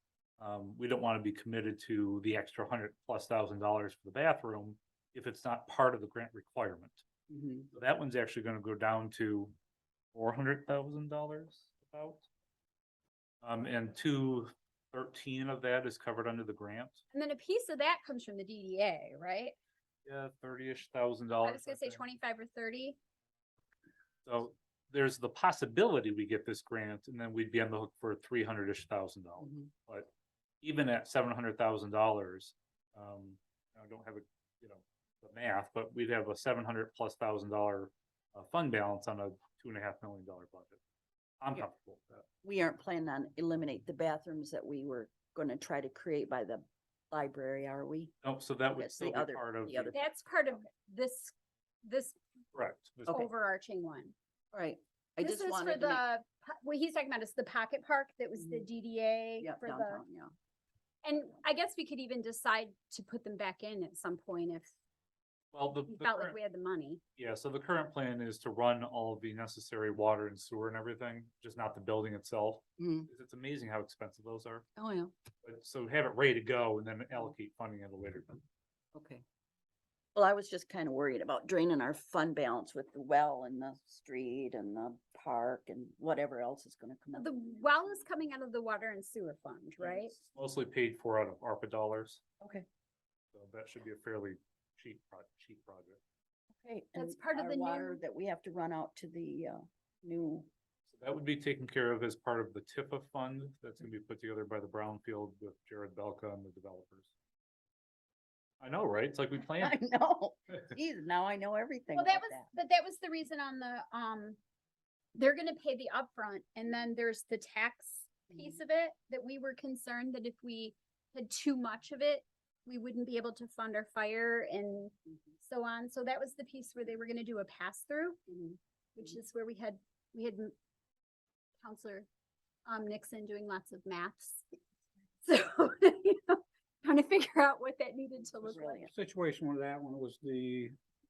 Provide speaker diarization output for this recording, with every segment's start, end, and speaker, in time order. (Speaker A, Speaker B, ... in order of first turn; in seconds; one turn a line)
Speaker A: 0.4-7.0
Speaker B: 7.3-7.7
Speaker A: 7.7-9.5
Speaker A: 10.1-12.2
Speaker A: 13.4-17.0
Speaker C: 17.1-19.5
Speaker A: 20.1-22.0
Speaker C: 21.4-23.0
Speaker A: 24.2-30.1
Speaker A: 30.6-40.8
Speaker A: 41.4-42.2
Speaker B: 42.4-48.1
Speaker A: 48.2-50.0
Speaker B: 48.7-50.0
Speaker C: 49.9-51.3
Speaker C: 51.8-52.1
Speaker A: 52.5-53.1
Speaker C: 53.1-54.1
Speaker B: 54.5-56.0
Speaker C: 55.2-60.0
Speaker B: 58.4-58.6
Speaker B: 59.4-60.3
Speaker C: 61.0-64.7
Speaker A: 65.5-66.3
Speaker C: 65.9-67.0
Speaker A: 67.2-74.7
Speaker B: 72.8-73.1
Speaker B: 74.8-75.1
Speaker A: 75.4-78.4
Speaker B: 78.9-79.2
Speaker B: 80.1-88.0
Speaker C: 87.1-90.1
Speaker A: 89.8-92.2
Speaker A: 93.3-96.0
Speaker B: 96.6-100.5
Speaker C: 96.9-98.0
Speaker A: 100.9-107.1
Speaker A: 108.6-109.8
Speaker B: 109.5-112.5
Speaker C: 111.9-114.4
Speaker C: 115.1-128.3
Speaker C: 128.9-130.5
Speaker C: 131.6-132.1
Speaker C: 132.7-134.4
Speaker C: 135.2-138.8
Speaker B: 138.4-138.9
Speaker D: 138.8-140.8